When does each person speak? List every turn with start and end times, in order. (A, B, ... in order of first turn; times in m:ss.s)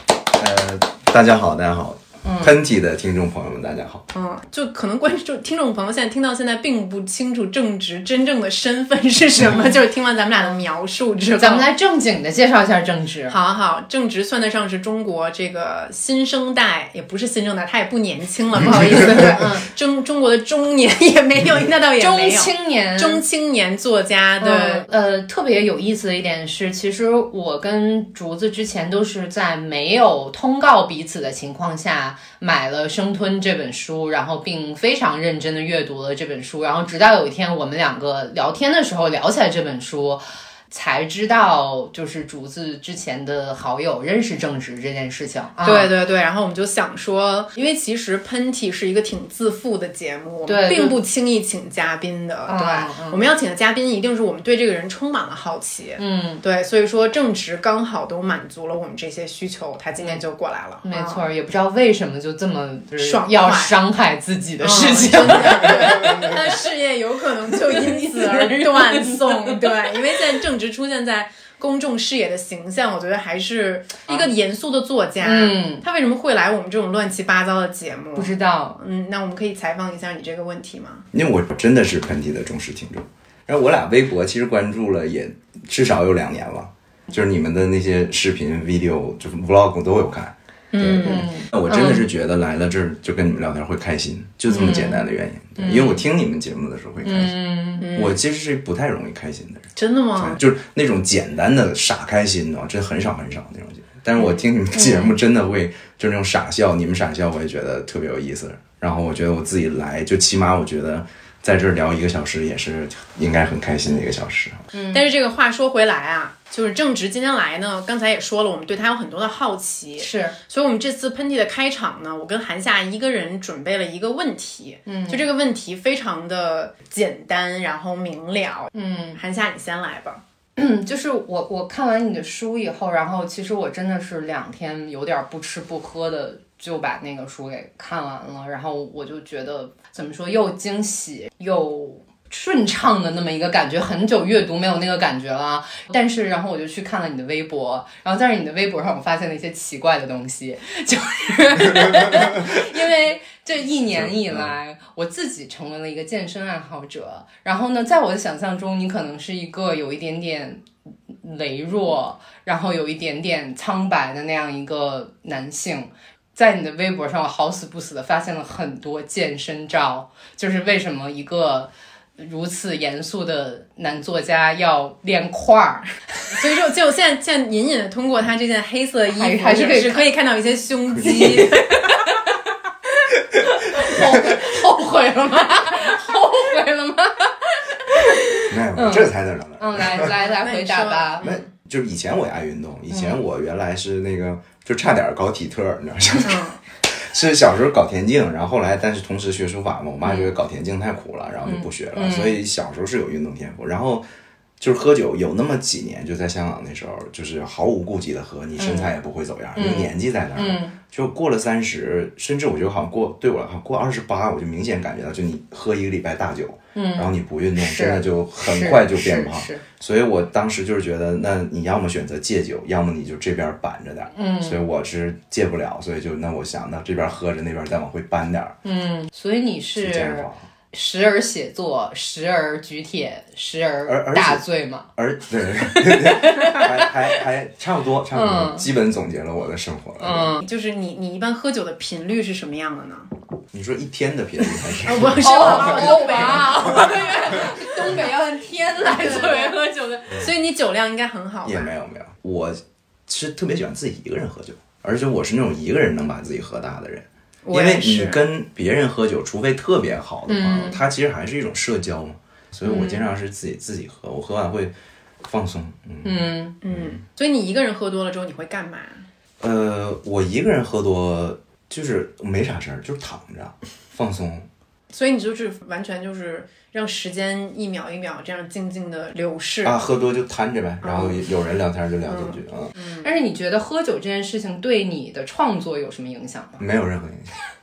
0:00.4-0:04.1 A
0:02.2-0:02.6 B
0:04.1-0:11.7 C
0:11.4-0:13.4 B
0:13.3-0:24.9 C
0:18.7-0:19.7 B
0:22.0-0:23.2 B
0:24.4-0:45.9 B
0:45.6-1:01.3 C
0:50.5-0:51.0 B
0:52.5-0:53.2 B
0:56.0-0:56.4 B
1:00.8-1:06.4 B
1:03.0-1:03.8 C
1:04.6-1:21.1 C
1:05.3-1:06.4 A
1:07.7-1:09.2 B
1:15.2-1:15.8 B
1:18.2-1:18.8 B
1:21.1-1:37.4 A
1:30.7-1:31.2 C
1:31.0-1:32.0 B
1:34.5-1:35.1 B
1:35.6-1:36.0 B
1:37.0-1:37.9 B
1:37.8-1:38.2 C
1:37.9-1:54.6 A
1:39.8-1:40.4 C
1:44.7-1:45.1 B
1:54.7-1:55.0 B
1:54.9-2:10.2 C
2:00.0-2:00.4 B
2:04.9-2:05.2 B
2:08.7-2:09.2 B
2:10.6-2:40.6 B
2:33.9-2:34.5 A
2:41.2-2:55.9 B
2:56.3-3:02.0 C
2:59.2-3:00.1 B
3:01.0-3:02.2 B
3:03.5-3:11.3 B
3:08.5-3:10.1 A
3:10.0-3:11.5 C
3:11.2-3:24.1 A
3:12.9-3:13.2 B
3:16.2-3:16.6 C
3:21.5-3:22.4 B
3:24.6-3:48.6 A
3:28.6-3:28.9 B
3:29.6-3:30.8 B
3:36.8-3:39.6 B
3:44.1-3:44.6 B
3:48.6-3:54.9 B
3:49.8-3:50.5 A
3:53.9-3:54.4 A
3:55.0-4:00.3 A
3:55.5-3:56.9 B
3:58.1-3:58.7 B
4:00.0-4:00.4 B
4:00.4-4:03.1 C
4:03.5-4:06.7 A
4:04.9-4:07.5 C
4:05.2-4:10.1 B
4:09.0-4:09.6 C
4:10.1-4:11.7 C
4:11.4-4:27.0 A
4:17.4-4:18.2 C
4:20.3-4:20.8 B
4:22.6-4:23.1 B
4:26.0-4:26.5 B
4:26.6-4:29.1 C
4:29.4-4:34.5 A
4:34.9-4:39.8 C
4:39.6-4:42.7 A
4:40.8-4:41.3 C
4:42.1-4:43.1 C
4:43.0-4:46.6 B
4:46.6-4:47.3 A